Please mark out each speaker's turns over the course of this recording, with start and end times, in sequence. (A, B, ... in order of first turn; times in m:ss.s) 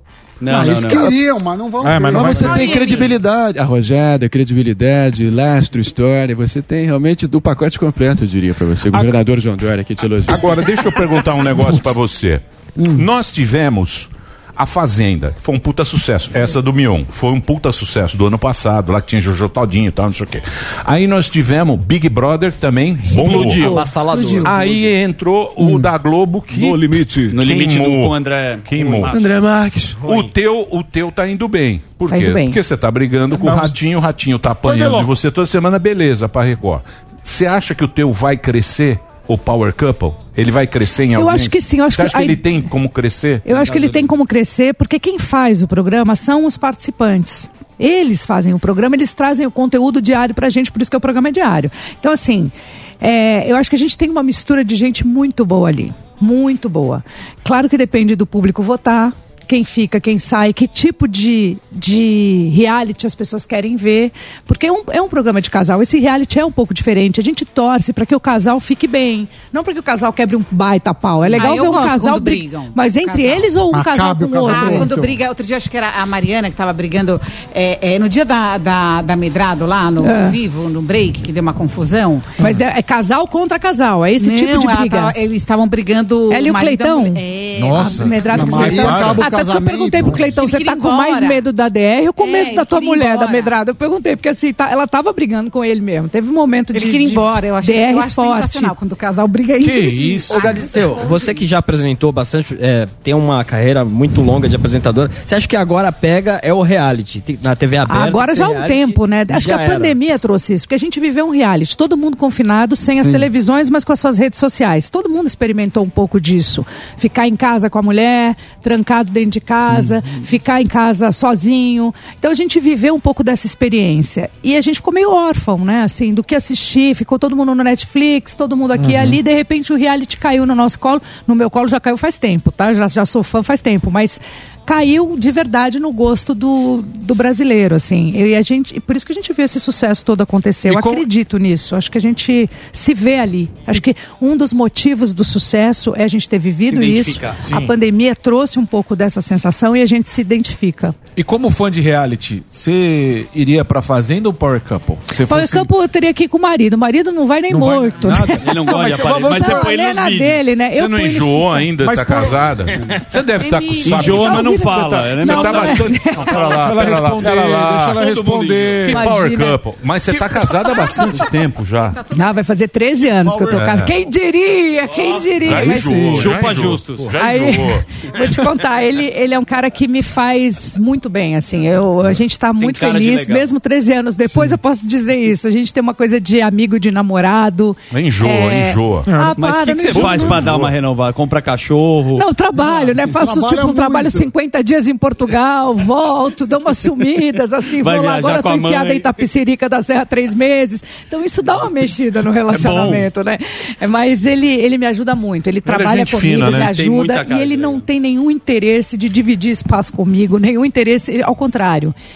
0:00.4-0:01.1 A
0:00.5-0:03.0 B
0:01.8-0:02.7 C
0:02.0-0:10.6 D
0:10.3-0:29.2 E
0:12.8-0:13.0 B
0:23.1-0:24.5 F
0:23.2-0:23.8 A
0:24.1-0:24.4 B
0:26.5-0:29.2 A
0:29.1-0:30.2 C
0:30.0-0:43.5 E
0:32.1-0:32.6 G
0:33.4-0:33.7 C
0:34.7-0:35.1 C
0:41.2-0:42.5 G
0:43.4-1:15.0 G
0:43.5-0:44.0 A
1:11.3-1:13.5 H
1:13.7-1:15.2 B
1:14.4-1:22.3 H
1:20.0-1:20.4 G
1:22.4-1:25.2 G
1:24.2-1:28.0 H
1:26.3-1:38.8 G
1:27.6-1:29.3 C
1:27.7-1:30.4 B
1:30.3-1:31.5 H
1:32.2-1:33.6 H
1:36.7-1:40.7 H
1:39.6-1:40.3 C
1:39.7-1:49.9 F
1:47.9-2:31.0 G
2:08.8-2:09.1 C
2:20.7-2:21.0 C
2:26.6-2:27.4 A
2:27.4-2:27.7 C
2:31.2-2:35.7 C
2:35.3-2:38.5 G
2:37.5-2:39.7 C
2:38.4-2:40.5 A
2:39.1-2:41.7 G
2:40.7-2:44.5 E
2:41.8-2:42.5 C
2:43.5-2:46.3 G
2:43.8-2:46.5 A
2:45.2-2:48.0 E
2:46.3-2:49.0 C
2:48.4-2:49.0 A
2:48.8-2:52.0 E
2:48.9-2:49.6 G
2:50.7-2:51.3 H
2:51.9-2:52.4 H
2:52.1-2:56.4 G
2:53.2-2:53.8 C
2:53.5-2:53.9 E
2:54.9-2:57.1 A
2:55.4-2:57.8 E
2:57.2-3:10.5 G
3:02.6-3:03.5 A
3:07.9-3:09.1 E
3:09.1-3:09.4 C
3:09.4-3:12.3 A
3:10.0-3:10.7 E
3:12.2-3:31.9 G
3:12.6-3:14.3 B
3:17.8-3:19.1 A
3:22.5-3:23.1 A
3:25.7-3:26.7 E
3:26.5-3:27.8 A